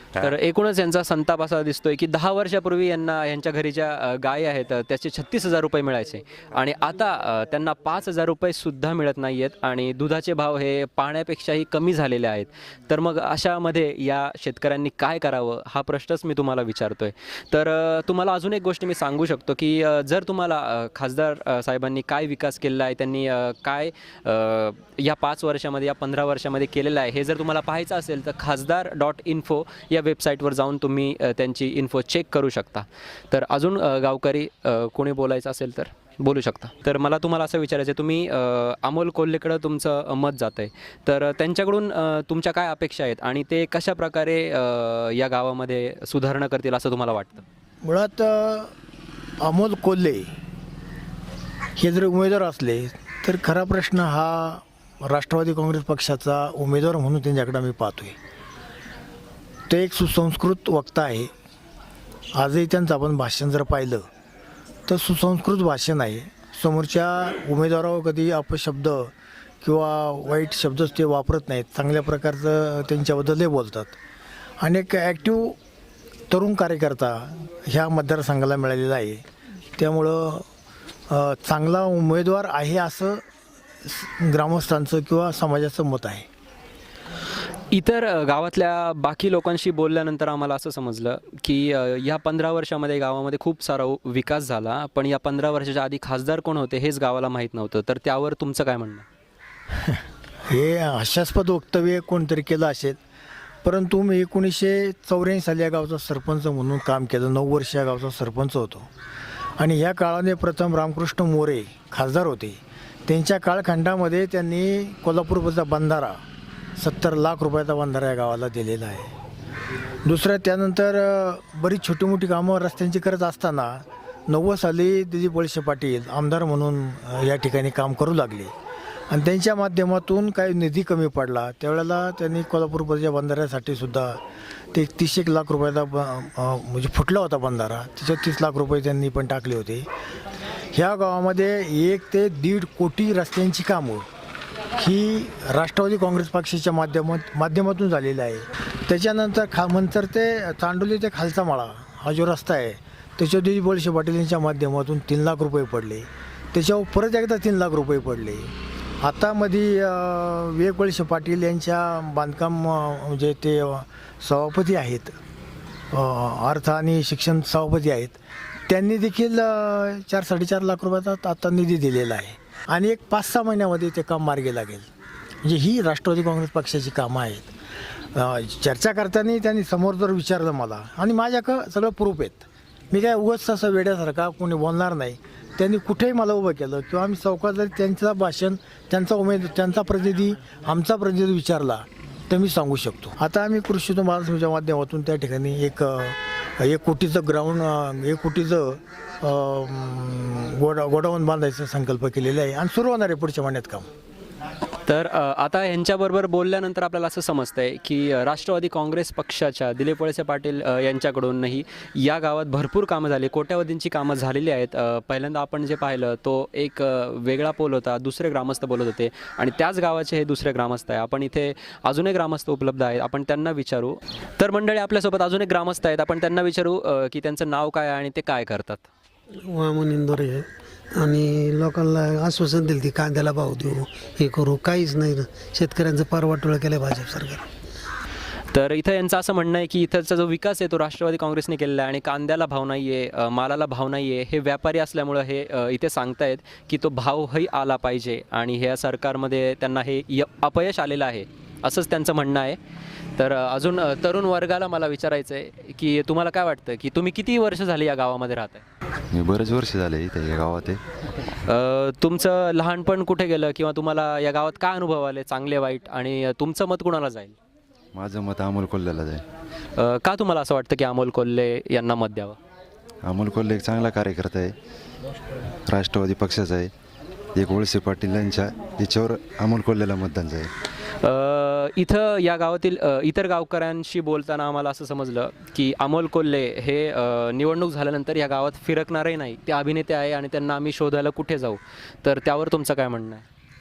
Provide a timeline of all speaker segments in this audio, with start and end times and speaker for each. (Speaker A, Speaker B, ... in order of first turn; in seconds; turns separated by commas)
Speaker A: 0.2-47.4, Speaker B: 47.8-48.7, Speaker B: 49.4-50.3, Speaker B: 51.8-58.2, Speaker B: 59.7-61.3, Speaker B: 62.3-64.1, Speaker B: 64.9-74.0, Speaker B: 74.6-75.6, Speaker B: 76.3-79.2, Speaker B: 79.8-80.5, Speaker B: 81.1-83.2, Speaker B: 83.8-86.3, Speaker A: 87.7-99.1, Speaker B: 99.7-103.0, Speaker B: 103.6-108.9, Speaker B: 109.6-116.2, Speaker B: 116.8-119.1, Speaker B: 120.0-128.5, Speaker B: 129.1-134.2, Speaker B: 134.7-139.9, Speaker B: 140.7-144.1, Speaker B: 144.8-165.2, Speaker B: 165.9-174.9, Speaker B: 175.4-177.5, Speaker B: 178.1-203.9, Speaker A: 204.9-228.9, Speaker C: 229.4-237.5, Speaker A: 238.5-252.6, Speaker A: 253.2-258.6, Speaker D: 259.1-260.8, Speaker A: 261.5-267.4, Speaker D: 267.9-269.2, Speaker A: 269.8-272.4, Speaker D: 273.1-274.5, Speaker D: 275.7-276.7, Speaker D: 277.4-280.5, Speaker A: 281.0-293.2